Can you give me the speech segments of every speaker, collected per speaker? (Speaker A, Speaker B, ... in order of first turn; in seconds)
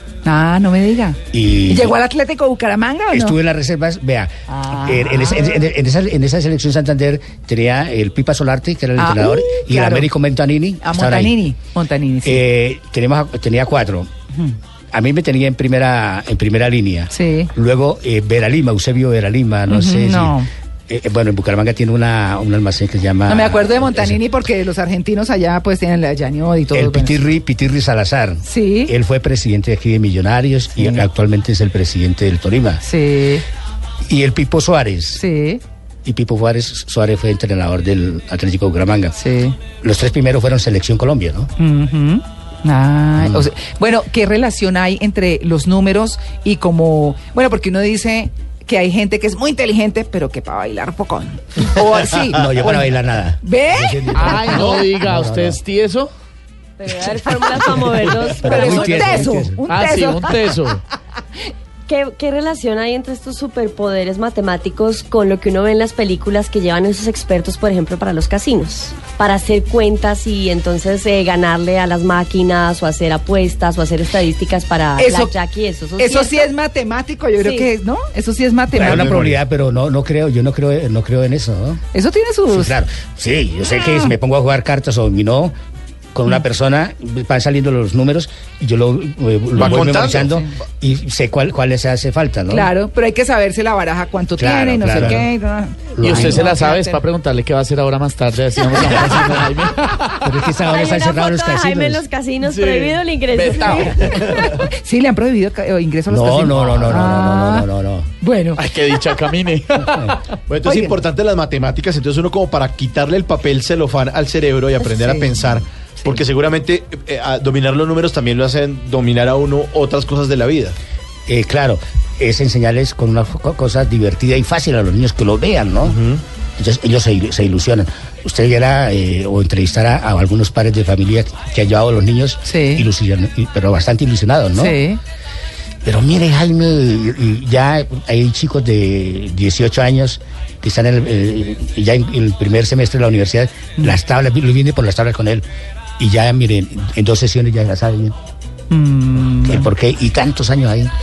Speaker A: 0.2-3.4, 4.5-5.7, 9.0-10.1, 10.8-12.4, 17.1-17.5, 19.7-20.5, 23.3-27.3, 28.4-28.9, 32.8-33.4, 35.2-35.6, 39.1-39.6, 41.6-52.9, 53.4-54.8, 58.4-60.5, 75.0-75.3, 76.0-79.3, 81.9-82.8, 83.8-84.1, 90.2-90.5, 92.5-97.0, 103.7-107.7, 108.2-108.6, 110.6-111.0, 132.4-132.9, 134.6-135.0, 148.7-149.7
Speaker B: 1.3-2.0, 3.1-11.4, 12.2-14.1, 14.9-24.2, 26.7-32.8, 34.1-35.2, 36.0-39.2, 39.8-41.5, 43.2-43.5, 52.2-55.6, 58.3-59.6, 78.8-81.8, 82.5-85.5, 86.1-92.7, 94.4-95.3, 96.0-96.5, 99.0-99.2, 100.2-102.0, 106.1-108.1, 109.9-110.2, 121.3-126.0, 126.6-134.8, 135.8-145.4, 146.0-148.2, 149.4-150.9
Speaker C: 54.1-56.1, 59.7-60.8, 96.0-100.3, 102.4-104.4, 108.6-110.4
Speaker D: 56.8-59.4, 61.9-76.5, 77.4-77.7, 100.7-104.7
Speaker E: 78.9-79.3, 89.5-90.3, 110.5-120.8, 125.8-126.2